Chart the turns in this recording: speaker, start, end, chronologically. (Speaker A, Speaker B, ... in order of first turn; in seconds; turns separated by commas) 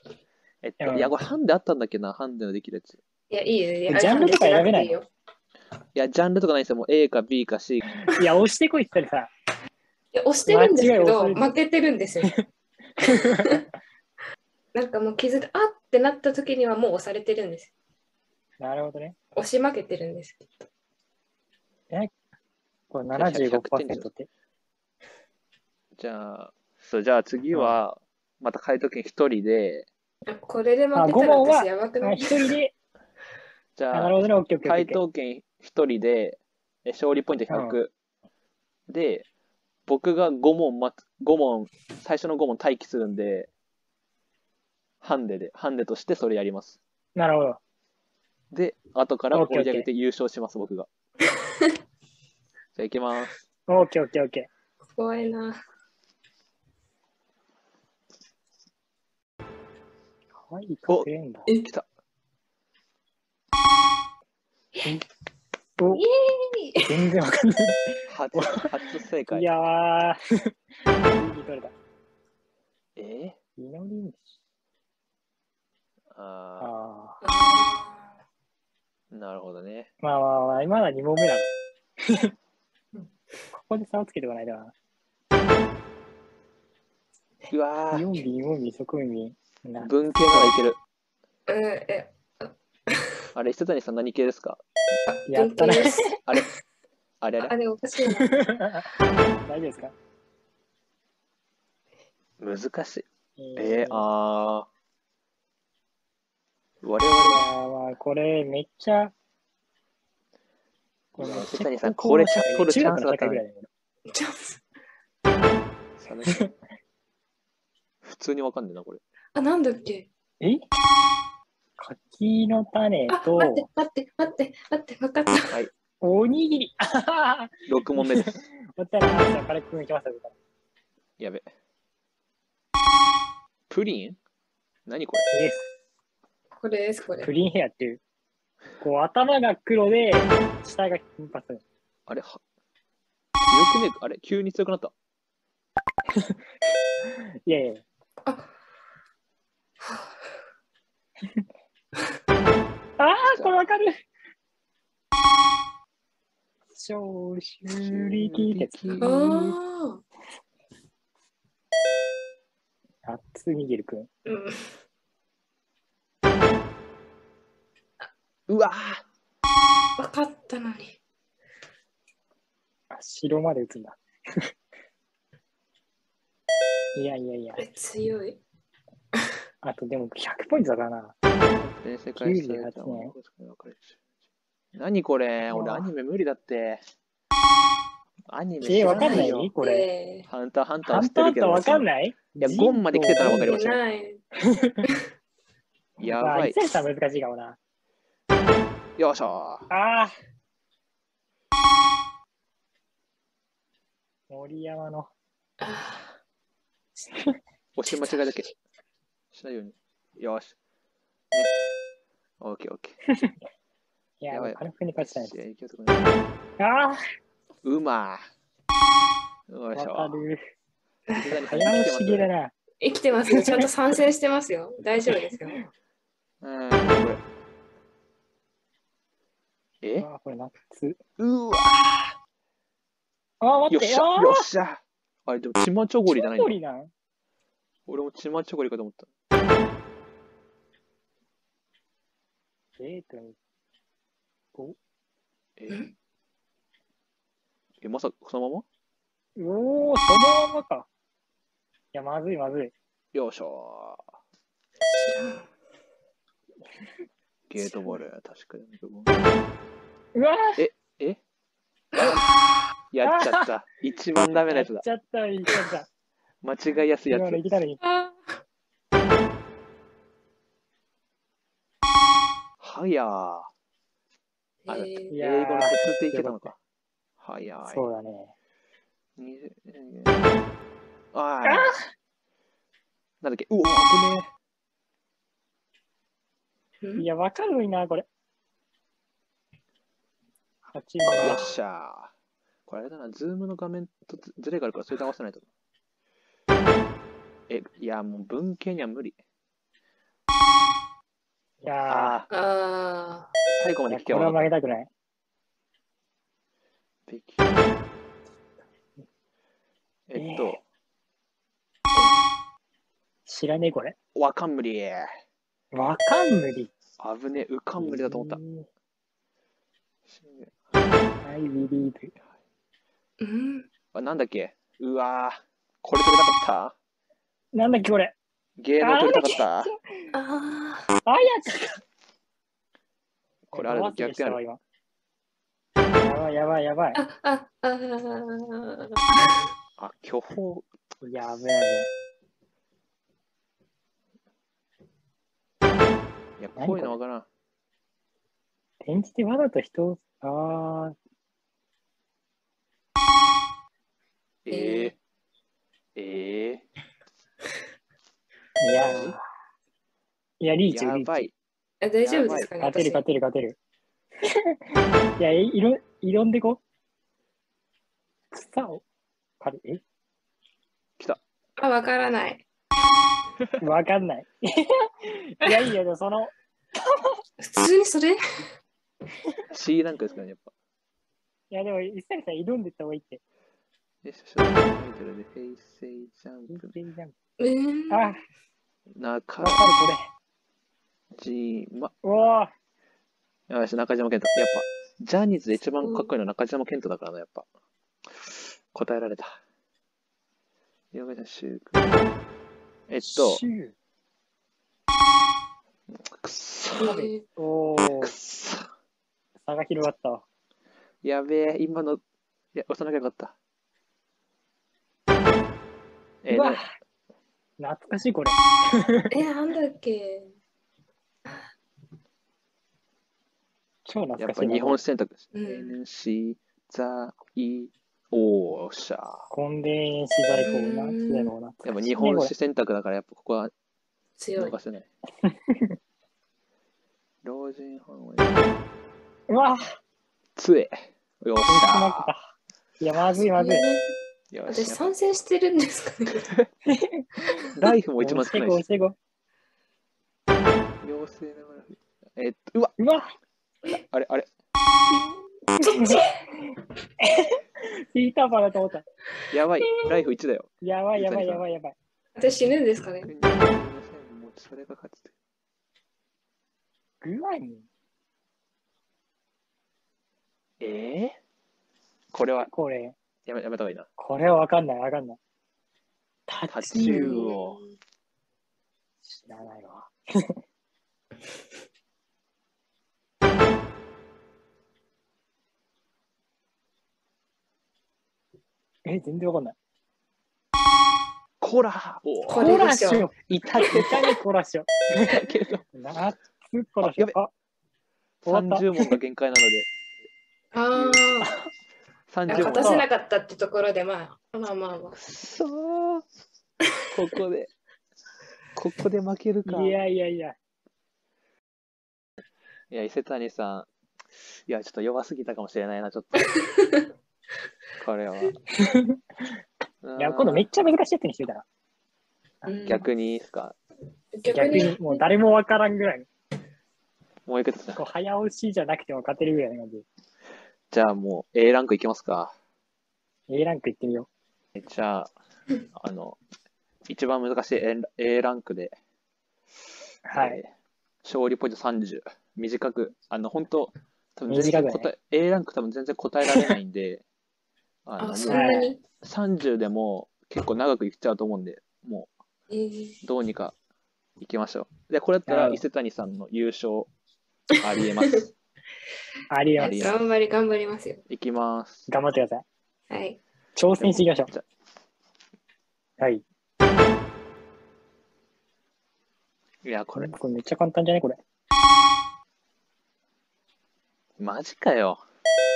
Speaker A: 0.6-3.0, Speaker B: 0.8-1.1, Speaker C: 3.3-5.1, Speaker B: 3.9-5.0, Speaker A: 5.9-7.8, Speaker B: 8.1-9.3, Speaker C: 10.1-12.4, Speaker B: 10.4-11.6, Speaker B: 13.0-13.6, Speaker C: 13.1-13.6, Speaker C: 14.7-17.7, Speaker B: 18.6-19.1, Speaker C: 19.3-20.6, Speaker B: 22.9-24.3, Speaker A: 23.1-24.1, Speaker A: 26.0-29.9, Speaker B: 27.5-27.8, Speaker C: 30.2-32.5, Speaker B: 30.9-32.7, Speaker A: 33.8-37.9, Speaker B: 33.9-35.0, Speaker B: 37.5-37.8, Speaker A: 38.9-39.3, Speaker A: 39.9-43.5, Speaker A: 45.0-46.8, Speaker B: 47.1-47.6, Speaker A: 48.5-50.9, Speaker B: 49.3-49.9, Speaker A: 52.8-53.3, Speaker B: 53.7-54.5, Speaker C: 54.9-55.6, Speaker B: 60.4-61.5, Speaker B: 65.8-66.0, Speaker C: 65.9-67.0, Speaker B: 66.8-68.7, Speaker A: 68.1-69.5, Speaker B: 69.3-70.2, Speaker B: 71.0-71.7, Speaker A: 73.0-73.4, Speaker B: 73.6-74.3, Speaker A: 76.1-76.7, Speaker B: 76.6-77.2, Speaker C: 77.2-78.2, Speaker A: 79.1-79.9, Speaker B: 80.0-81.5, Speaker B: 82.0-82.3, Speaker B: 83.5-84.7, Speaker A: 87.5-88.1, Speaker B: 87.9-90.5, Speaker A: 89.8-90.8, Speaker C: 91.5-93.1, Speaker A: 93.3-94.6, Speaker C: 95.1-96.4, Speaker B: 95.3-96.1, Speaker A: 97.2-97.5, Speaker C: 97.4-98.8, Speaker B: 98.2-98.8, Speaker B: 99.4-99.9, Speaker A: 102.4-104.7, Speaker B: 103.4-104.0, Speaker A: 106.8-107.5, Speaker B: 107.2-109.1, Speaker B: 111.2-113.7, Speaker A: 111.2-113.4, Speaker C: 114.1-114.6, Speaker A: 116.0-116.6, Speaker A: 118.0-119.0, Speaker C: 119.3-120.1, Speaker B: 121.8-123.7, Speaker C: 123.1-125.6, Speaker B: 126.0-130.3, Speaker A: 127.7-128.4, Speaker A: 131.2-131.5, Speaker A: 133.7-134.2, Speaker A: 134.9-135.3, Speaker B: 135.3-135.7, Speaker C: 136.6-137.3, Speaker B: 137.2-138.0, Speaker B: 138.8-141.6, Speaker A: 142.1-142.4, Speaker A: 143.4-144.9, Speaker B: 147.4-147.8, Speaker C: 148.2-148.5, Speaker C: 149.8-150.3, Speaker B: 153.0-154.0, Speaker A: 153.3-153.7, Speaker B: 156.7-159.0, Speaker A: 157.7-159.6, Speaker C: 159.0-160.0, Speaker B: 163.0-164.1, Speaker C: 164.2-164.7, Speaker A: 168.5-169.0, Speaker C: 170.0-171.0, Speaker B: 172.9-174.0, Speaker B: 176.9-177.6, Speaker C: 177.6-178.4, Speaker B: 179.6-181.1, Speaker A: 181.4-184.0, Speaker B: 182.2-183.1, Speaker A: 184.7-186.8, Speaker B: 185.4-185.9, Speaker A: 188.3-189.5, Speaker B: 188.6-189.9, Speaker C: 188.7-190.3, Speaker A: 190.3-191.9, Speaker B: 190.8-193.6, Speaker A: 192.4-193.8, Speaker C: 193.2-194.2, Speaker B: 194.4-194.8, Speaker A: 196.0-196.6, Speaker B: 196.1-197.6, Speaker A: 199.0-199.7, Speaker B: 199.7-200.1, Speaker B: 204.3-205.1, Speaker C: 205.6-206.1, Speaker A: 207.8-208.5, Speaker C: 208.1-208.5, Speaker A: 209.3-210.5, Speaker A: 212.4-213.0, Speaker B: 213.1-213.3, Speaker B: 214.2-215.4, Speaker A: 214.3-216.2, Speaker B: 216.6-217.0, Speaker A: 217.6-218.2, Speaker A: 219.5-220.2, Speaker B: 219.7-220.4, Speaker A: 221.2-222.3, Speaker B: 221.4-222.5, Speaker C: 222.8-225.6, Speaker B: 223.3-223.6, Speaker A: 226.4-227.2, Speaker A: 229.8-230.1, Speaker B: 230.0-231.0, Speaker A: 231.2-232.1, Speaker B: 233.4-234.5, Speaker A: 233.7-236.6, Speaker B: 236.1-236.9, Speaker A: 237.9-239.1, Speaker B: 242.8-243.4, Speaker A: 247.8-248.6, Speaker B: 249.4-250.9, Speaker B: 251.9-252.7, Speaker A: 253.1-254.0, Speaker C: 254.8-255.4, Speaker A: 257.5-259.2, Speaker B: 260.1-260.6, Speaker A: 260.6-261.2, Speaker C: 261.9-262.2, Speaker A: 262.9-264.8, Speaker B: 263.0-263.5, Speaker B: 264.5-265.9, Speaker A: 266.4-267.6, Speaker B: 267.1-267.8, Speaker C: 267.8-268.4, Speaker A: 272.6-273.5, Speaker C: 274.6-275.1, Speaker A: 274.7-276.6, Speaker B: 275.1-276.5, Speaker A: 277.2-277.8, Speaker B: 277.7-278.3, Speaker A: 279.2-280.2, Speaker A: 281.1-281.7, Speaker B: 281.4-281.9, Speaker A: 283.2-284.3, Speaker B: 287.0-288.1, Speaker B: 290.7-291.5, Speaker A: 291.0-292.1, Speaker A: 292.7-295.4, Speaker A: 297.5-299.2, Speaker B: 301.6-302.2, Speaker A: 301.9-302.3, Speaker C: 302.3-303.3, Speaker A: 303.5-304.5, Speaker B: 303.9-304.9, Speaker A: 307.1-307.6, Speaker A: 310.1-310.6, Speaker B: 310.1-310.6, Speaker B: 313.2-313.9, Speaker A: 314.1-315.1, Speaker B: 315.7-316.7, Speaker A: 317.0-318.4, Speaker B: 317.8-318.7, Speaker A: 320.1-320.6, Speaker B: 321.2-322.1, Speaker C: 323.2-323.7, Speaker A: 323.9-326.7, Speaker B: 327.5-328.1, Speaker A: 328.6-329.7, Speaker B: 328.8-330.1, Speaker C: 330.1-330.9, Speaker B: 331.0-331.8, Speaker B: 333.5-334.6, Speaker A: 333.5-334.4, Speaker B: 336.0-337.0, Speaker C: 336.9-339.4, Speaker A: 339.8-340.6, Speaker B: 341.0-341.9, Speaker A: 346.4-347.3, Speaker B: 346.6-347.0, Speaker B: 348.8-350.9, Speaker A: 354.4-354.9, Speaker C: 354.5-354.9, Speaker A: 355.9-356.6, Speaker B: 358.6-359.2, Speaker A: 358.8-359.2, Speaker B: 360.4-361.3, Speaker A: 360.7-361.3, Speaker C: 361.8-363.0, Speaker A: 362.0-362.5, Speaker B: 362.6-363.6, Speaker B: 365.2-366.6, Speaker B: 368.3-368.8, Speaker B: 369.4-369.8, Speaker C: 371.6-372.4, Speaker B: 373.6-377.2, Speaker C: 377.4-378.2, Speaker A: 379.5-380.5, Speaker B: 381.5-383.2, Speaker A: 384.0-386.7, Speaker B: 386.5-387.1, Speaker C: 387.4-388.1, Speaker B: 387.9-388.2, Speaker A: 388.9-389.9, Speaker B: 389.4-390.1, Speaker A: 391.1-391.9, Speaker B: 392.0-392.5, Speaker A: 393.5-397.5, Speaker C: 395.8-396.1, Speaker A: 398.1-399.4, Speaker A: 400.9-402.1, Speaker A: 402.9-403.4, Speaker B: 403.0-403.7, Speaker A: 405.9-407.0, Speaker C: 406.8-407.2, Speaker B: 406.9-408.1, Speaker A: 408.0-408.7, Speaker B: 409.4-410.2, Speaker A: 411.0-412.0, Speaker A: 412.5-413.3, Speaker A: 416.2-416.6, Speaker B: 416.3-416.6, Speaker B: 417.6-419.1, Speaker C: 419.1-420.3, Speaker B: 423.8-424.8, Speaker A: 424.2-429.2, Speaker C: 425.3-425.8, Speaker B: 429.3-432.3, Speaker C: 430.4-431.3, Speaker A: 431.6-433.5, Speaker C: 434.2-434.6, Speaker A: 434.4-434.9, Speaker B: 435.2-435.7, Speaker A: 437.2-438.4, Speaker B: 439.3-439.8, Speaker A: 440.4-442.1, Speaker B: 441.5-443.7, Speaker C: 443.2-443.8, Speaker A: 444.3-444.9, Speaker C: 444.5-446.3, Speaker B: 446.7-449.0, Speaker A: 447.5-448.6, Speaker A: 450.8-452.8, Speaker B: 452.8-453.1, Speaker A: 453.7-454.3, Speaker B: 455.5-458.9, Speaker C: 455.6-456.1, Speaker A: 459.3-461.4, Speaker C: 459.6-459.9, Speaker B: 460.6-461.8, Speaker C: 462.1-463.1, Speaker A: 463.0-465.1, Speaker B: 467.0-467.6, Speaker A: 470.6-471.1, Speaker A: 472.1-472.5, Speaker B: 472.4-472.9, Speaker A: 473.2-473.9, Speaker B: 474.0-475.2, Speaker B: 476.3-477.3, Speaker A: 476.5-477.6, Speaker C: 476.8-477.7, Speaker B: 479.0-480.3, Speaker B: 488.8-489.6, Speaker A: 491.4-492.7, Speaker C: 492.3-493.1, Speaker B: 492.4-495.2, Speaker A: 493.3-494.1, Speaker A: 495.0-495.6, Speaker B: 495.7-497.3, Speaker A: 496.8-497.1, Speaker B: 498.2-499.0, Speaker A: 498.2-499.7, Speaker C: 500.5-501.3, Speaker A: 500.7-501.0, Speaker B: 501.2-501.5, Speaker A: 502.1-502.9, Speaker C: 502.3-505.0, Speaker B: 502.3-502.7, Speaker A: 504.9-506.0, Speaker A: 506.9-507.5, Speaker A: 508.6-509.8, Speaker B: 509.4-510.4, Speaker A: 512.7-513.7, Speaker A: 514.2-516.3, Speaker C: 516.4-516.9, Speaker A: 517.8-518.4, Speaker B: 518.6-519.0, Speaker A: 519.8-520.5, Speaker B: 520.0-521.5, Speaker C: 522.4-522.9, Speaker A: 522.6-523.5, Speaker C: 524.1-525.0, Speaker B: 524.3-526.1, Speaker A: 527.2-527.8, Speaker B: 527.8-529.9, Speaker A: 530.7-532.3, Speaker B: 533.3-534.1, Speaker A: 534.5-535.1, Speaker A: 535.7-536.2, Speaker A: 536.9-538.7, Speaker B: 540.1-540.4, Speaker A: 540.1-540.5, Speaker A: 541.0-547.0, Speaker B: 544.3-544.9, Speaker A: 547.9-552.1, Speaker C: 548.0-548.8, Speaker B: 548.3-548.7, Speaker C: 552.5-553.0, Speaker A: 553.0-553.5, Speaker A: 554.2-556.9, Speaker B: 555.2-555.6, Speaker A: 557.6-558.2, Speaker B: 559.3-559.9, Speaker C: 559.5-561.0, Speaker A: 559.6-560.0, Speaker A: 561.1-561.9, Speaker B: 561.9-562.4, Speaker C: 562.9-563.2, Speaker B: 563.5-564.3, Speaker A: 563.8-564.4, Speaker A: 569.6-570.1, Speaker B: 570.0-571.2, Speaker A: 574.2-575.0